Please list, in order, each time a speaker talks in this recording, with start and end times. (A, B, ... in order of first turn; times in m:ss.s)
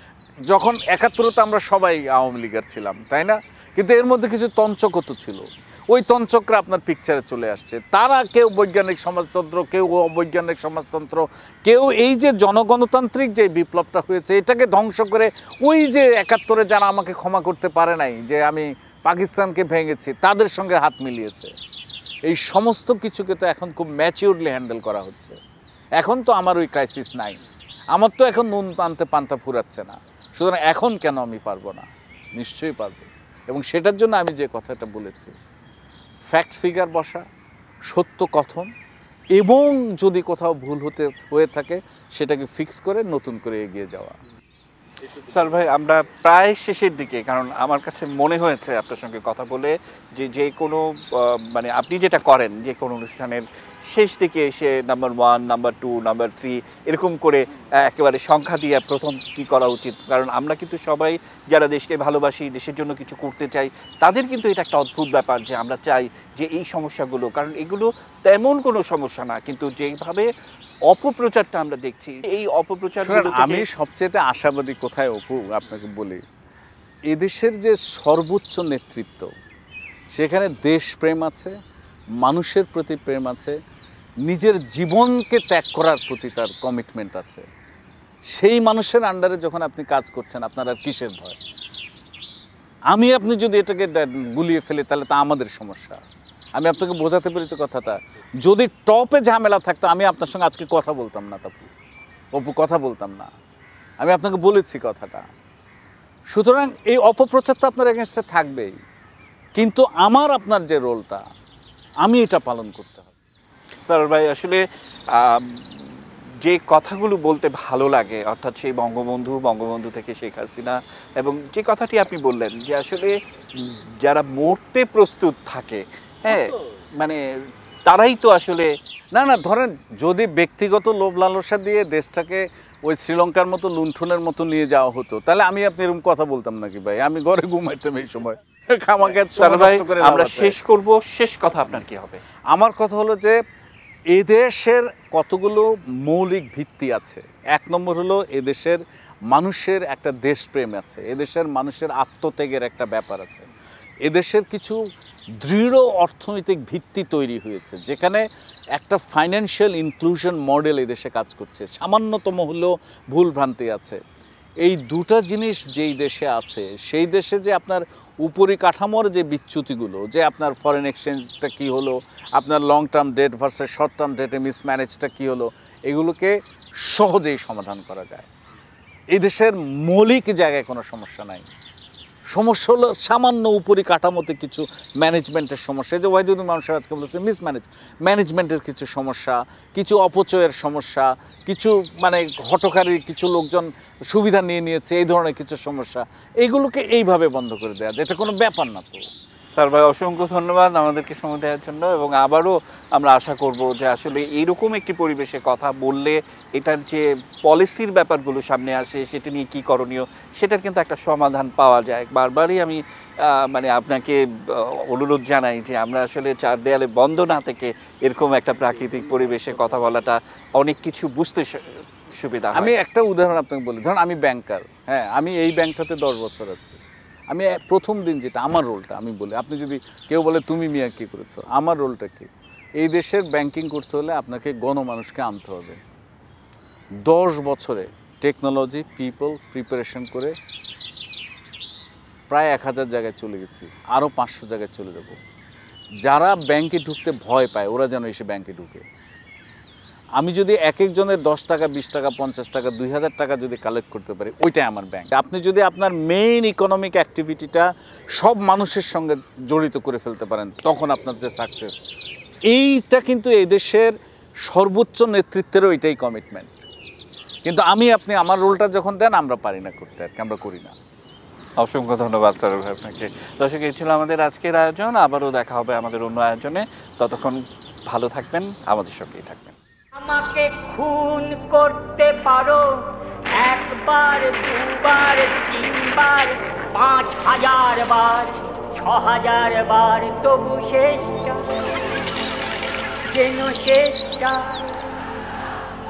0:00.5-0:21.5 A
0:22.2-0:25.4 A
0:26.0-0:27.4 A
0:27.9-0:35.3 A
0:36.3-0:37.2 A
0:37.9-0:38.7 A
0:39.3-0:44.2 A
0:45.1-1:10.3 B
1:10.9-1:13.6 B
1:13.0-1:16.2 A
1:17.1-1:19.3 A
1:20.1-1:21.5 A
1:22.2-1:23.6 A
1:24.2-1:27.4 A
1:28.3-1:31.4 A
1:32.9-1:36.0 A
1:36.6-1:41.7 A
1:42.3-1:43.3 A
1:44.0-1:45.2 A
1:46.3-1:48.8 A
1:49.5-1:51.2 A
1:52.0-1:53.1 A
1:53.9-2:07.2 B
2:07.8-2:08.7 B
2:09.1-2:20.6 A
2:19.3-2:22.2 B
2:22.5-2:23.4 A
2:24.1-2:33.5 A
2:34.0-2:34.8 A
2:35.4-2:44.0 A
2:44.6-2:58.3 A
2:59.1-3:01.5 A
3:02.3-3:19.1 A
3:19.6-3:42.7 B
3:42.5-3:46.8 A
3:47.3-3:55.8 A
3:57.0-4:00.3 A
4:02.3-4:05.2 A
4:06.0-4:08.8 A
4:10.2-4:21.8 A
4:22.5-4:23.9 A
4:24.4-4:26.6 A
4:27.4-4:30.7 A
4:31.6-4:39.6 B
4:40.0-4:42.8 C
4:43.4-4:51.4 C
4:53.1-4:54.8 C